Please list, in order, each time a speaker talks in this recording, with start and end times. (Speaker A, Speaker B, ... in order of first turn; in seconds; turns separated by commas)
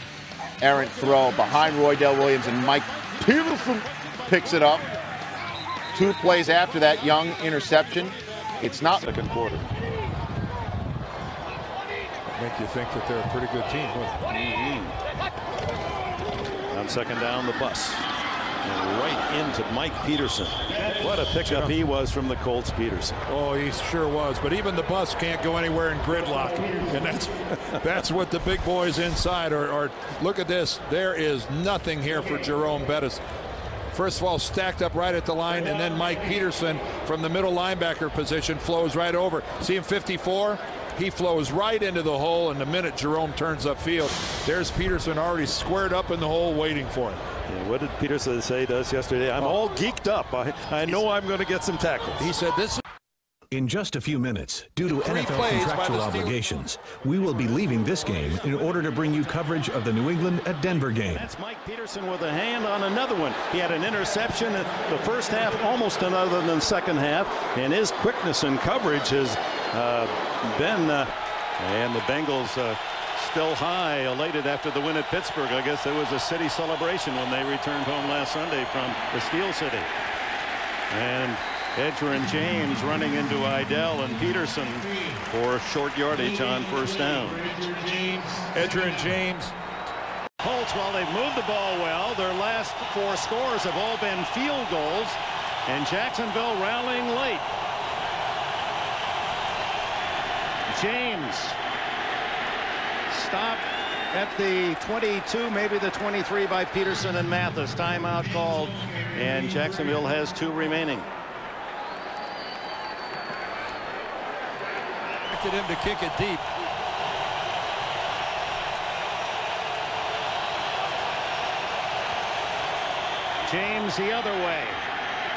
Speaker A: 0.6-4.9, Speaker A: 5.9-9.1, Speaker B: 9.0-9.7, Speaker C: 12.3-14.2, Speaker B: 14.3-14.9, Speaker B: 16.7-18.0, Speaker B: 18.6-23.2, Speaker C: 21.5-21.7, Speaker C: 23.3-33.2, Speaker C: 33.9-47.2, Speaker B: 47.5-52.3, Speaker C: 52.2-52.8, Speaker D: 53.5-61.3, Speaker C: 55.0-56.4, Speaker B: 61.1-79.9, Speaker B: 80.9-88.1, Speaker C: 88.5-89.5, Speaker B: 90.4-97.5, Speaker B: 100.7-101.6, Speaker B: 103.1-111.1, Speaker C: 115.3-116.4, Speaker B: 123.4-124.8